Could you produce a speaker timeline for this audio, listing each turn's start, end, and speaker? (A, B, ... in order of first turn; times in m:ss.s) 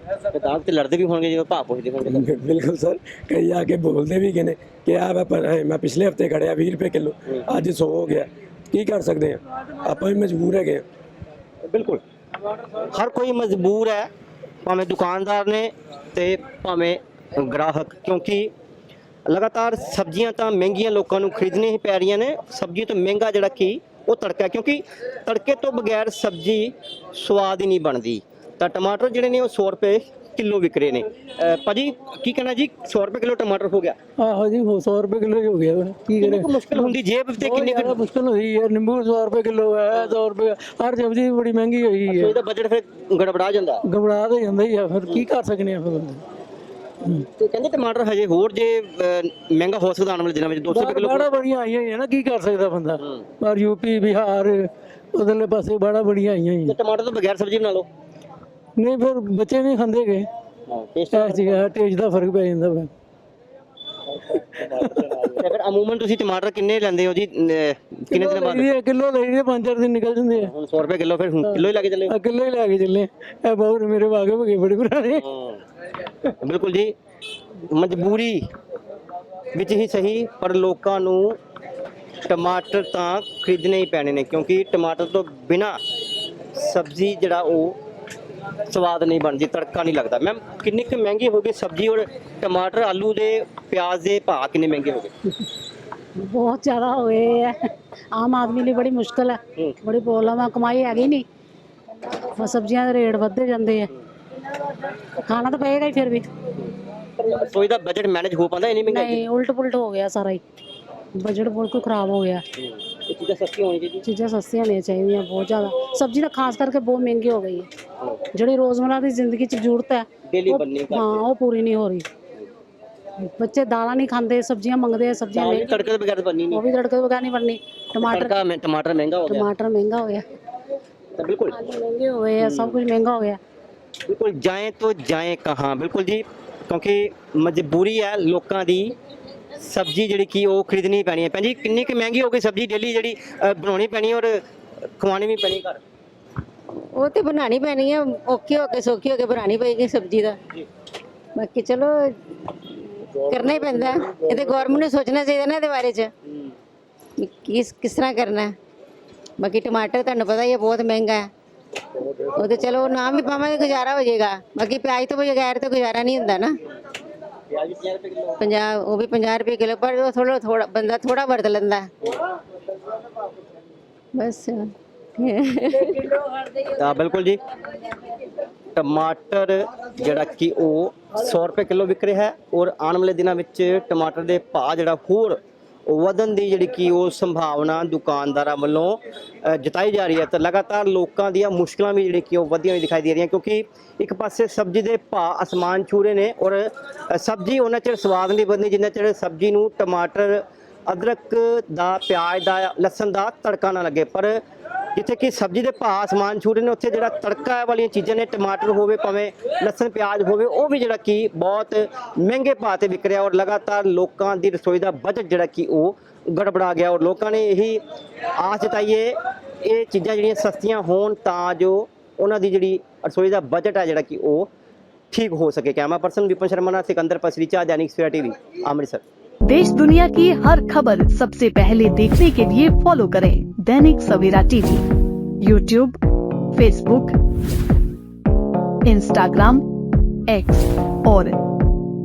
0:00.3-0:02.3 A
0:02.0-0:10.8 B
0:11.7-0:12.0 A
0:12.8-0:14.1 A
0:14.6-0:18.5 A
0:19.3-0:34.0 A
0:34.2-0:42.4 C
0:36.2-0:38.0 A
0:42.1-0:43.8 A
0:43.8-0:46.2 C
0:47.4-0:51.3 A
0:50.7-0:56.8 C
0:56.6-0:57.9 A
0:58.8-1:00.3 C
1:00.7-1:01.6 A
1:01.1-1:02.9 C
1:04.6-1:08.7 A
1:04.8-1:05.4 C
1:08.1-1:10.5 C
1:10.4-1:12.1 A
1:11.4-1:15.2 C
1:15.2-1:15.6 A
1:16.4-1:16.9 A
1:17.7-1:18.5 A
1:19.5-1:21.4 A
1:22.2-1:25.8 A
1:26.6-1:27.8 A
1:28.7-1:35.1 A
1:36.2-1:37.5 D
1:38.2-1:41.2 D
1:42.4-1:43.9 D
1:45.2-1:46.3 D
1:46.6-1:49.2 A
1:48.8-1:50.4 D
1:51.2-1:52.4 D
1:52.6-1:54.0 A
1:54.0-1:57.7 D
1:58.3-2:02.0 D
2:00.3-2:01.2 A
2:03.4-2:05.8 D
2:05.3-2:06.6 A
2:06.5-2:08.4 D
2:08.0-2:09.5 A
2:09.2-2:10.2 D
2:11.2-2:11.6 A
2:11.5-2:13.4 D
2:12.4-2:12.8 A
2:14.1-2:18.9 A
2:19.6-2:24.4 A
2:25.0-2:25.8 A
2:26.9-2:30.4 E
2:31.4-2:36.1 E
2:37.2-2:38.5 E
2:39.4-2:41.3 E
2:42.3-2:46.5 E
2:47.5-2:48.4 A
2:48.4-2:51.9 E
2:54.1-2:56.0 E
2:56.7-2:57.4 A
2:58.7-3:24.4 A
3:25.0-3:37.8 A
3:38.4-3:44.5 A
3:45.1-3:49.0 A
3:49.4-3:54.8 F
3:55.4-3:56.0 F
3:56.5-3:57.2 F
3:58.8-3:59.6 F
4:00.3-4:01.4 F